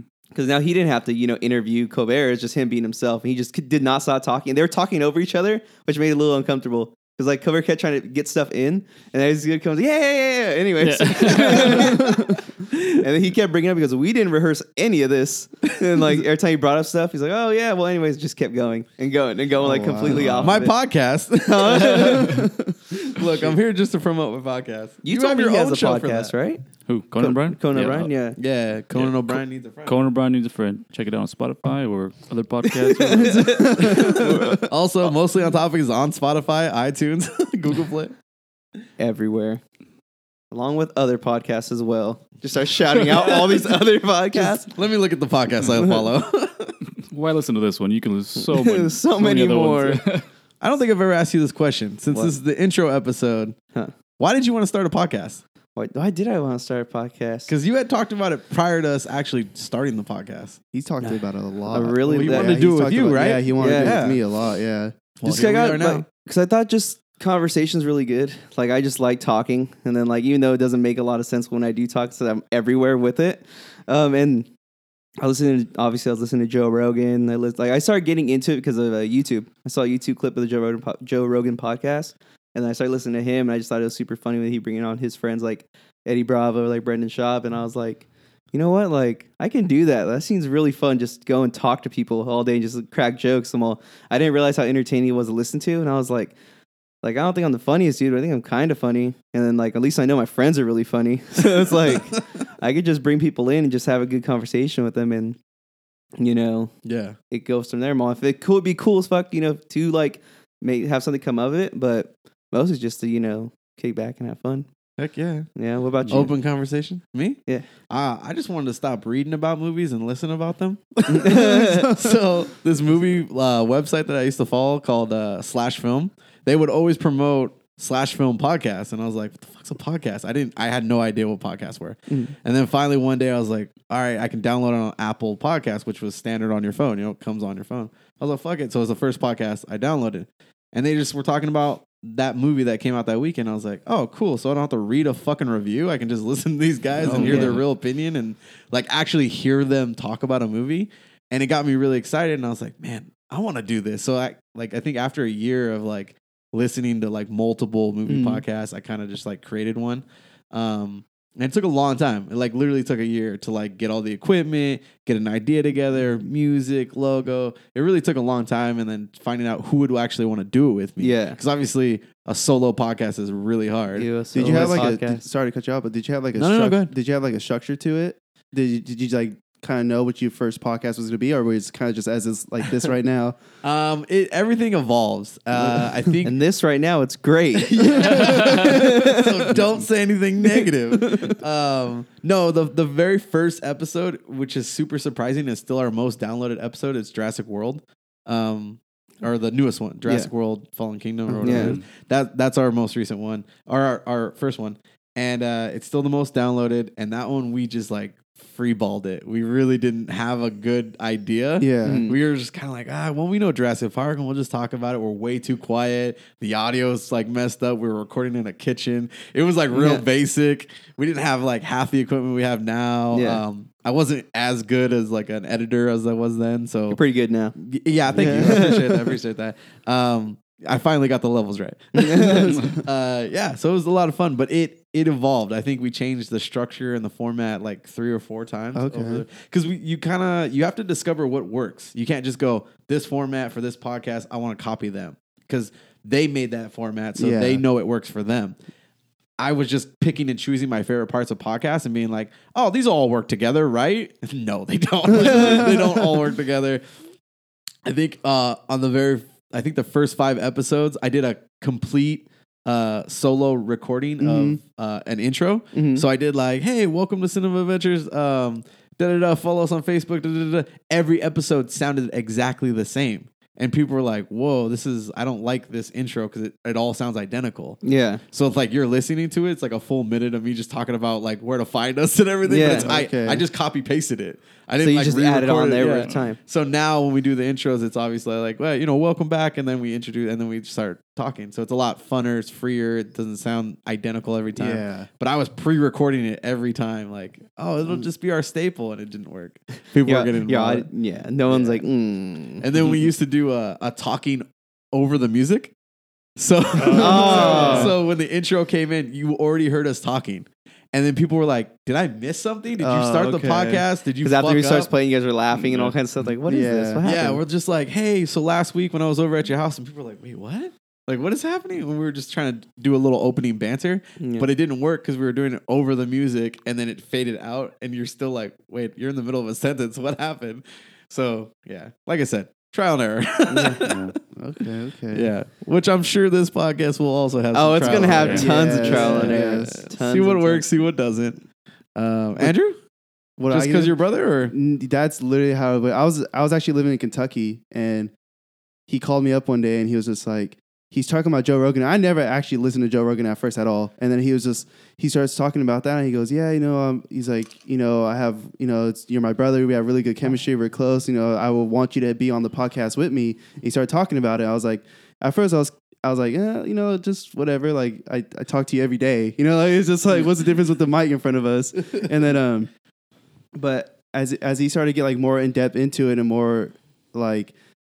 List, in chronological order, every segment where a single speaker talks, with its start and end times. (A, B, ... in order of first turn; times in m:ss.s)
0:00.3-0:12.4 A
0:10.8-0:12.0 B
0:11.7-0:12.4 C
0:12.7-0:13.0 D
0:12.9-0:20.8 A
0:19.6-0:20.4 C
0:20.1-0:20.6 B
0:20.4-0:22.4 D
0:21.4-0:22.4 A
0:22.0-0:22.7 C
0:22.9-0:26.3 D
0:25.0-0:26.6 A
0:26.9-0:28.1 B
0:27.2-0:28.4 A
0:28.4-0:30.0 D
0:28.9-0:33.9 B
0:32.8-0:34.7 A
0:33.2-0:34.7 C
0:33.8-0:38.1 D
0:39.0-0:39.6 A
0:40.5-0:44.7 A
0:44.3-0:46.8 D
0:47.1-0:50.3 B
0:48.4-0:50.0 A
0:50.6-0:53.6 D
0:54.2-0:55.4 D
0:55.8-0:57.5 A
0:57.5-1:00.6 D
1:00.7-1:04.9 C
1:01.0-1:04.0 A
1:02.1-1:04.2 D
1:05.2-1:06.0 D
1:05.2-1:14.5 A
1:15.2-1:36.4 A
1:37.0-1:45.4 A
1:41.6-1:42.2 D
1:46.2-1:46.7 A
1:46.8-1:47.2 D
1:47.3-1:54.7 A
1:55.0-1:55.5 D
1:55.6-1:56.3 A
1:56.1-2:54.9 D
2:01.1-2:01.9 A
2:01.2-2:02.2 C
2:27.0-2:27.6 A
2:27.1-2:27.6 B
2:27.1-2:27.4 C
2:38.1-2:38.4 A
2:51.0-2:51.4 A
2:54.0-2:55.2 A
2:54.3-3:03.4 C
2:56.4-2:56.9 D
3:03.6-3:06.4 D
3:06.2-3:09.6 A
3:07.6-3:47.0 D
3:21.3-3:21.8 C
3:21.4-3:21.8 A
3:21.5-3:21.8 B
3:31.6-3:32.1 C
3:31.8-3:32.2 A
3:39.7-3:40.0 A
3:43.1-3:43.4 A
3:46.9-3:47.6 A
3:47.6-4:08.6 D
3:48.1-3:49.1 A
3:52.0-3:52.7 A
3:58.8-3:59.2 C
4:07.2-4:07.6 C
4:09.4-4:16.8 D
4:15.1-4:16.0 C
4:17.8-5:00.9 D
4:24.2-4:24.6 C
4:25.7-4:26.0 A
4:37.8-4:38.2 A
4:42.4-4:43.0 A
4:42.6-4:43.4 C
4:44.8-4:46.4 A
4:54.6-4:55.1 C
5:00.0-5:02.6 A
5:01.5-5:01.8 D
5:02.6-5:05.7 D
5:06.4-5:14.9 D
5:06.8-5:08.0 B
5:06.9-5:07.9 A
5:07.1-5:07.8 C
5:12.8-5:13.8 C
5:14.2-5:17.4 A
5:15.6-5:16.0 B
5:16.5-5:17.0 C
5:17.0-5:34.1 D
5:24.2-5:24.5 A
5:33.5-5:33.8 A
5:33.8-5:34.1 B
5:34.4-5:35.3 C
5:35.1-5:41.4 D
5:37.5-5:40.7 A
5:37.9-5:39.8 C
5:38.2-5:38.5 B
5:42.0-5:42.8 D
5:43.4-5:44.0 C
5:43.5-5:44.6 D
5:44.5-5:48.1 C
5:48.9-6:12.7 C
6:13.6-6:14.0 A
6:14.0-6:17.5 C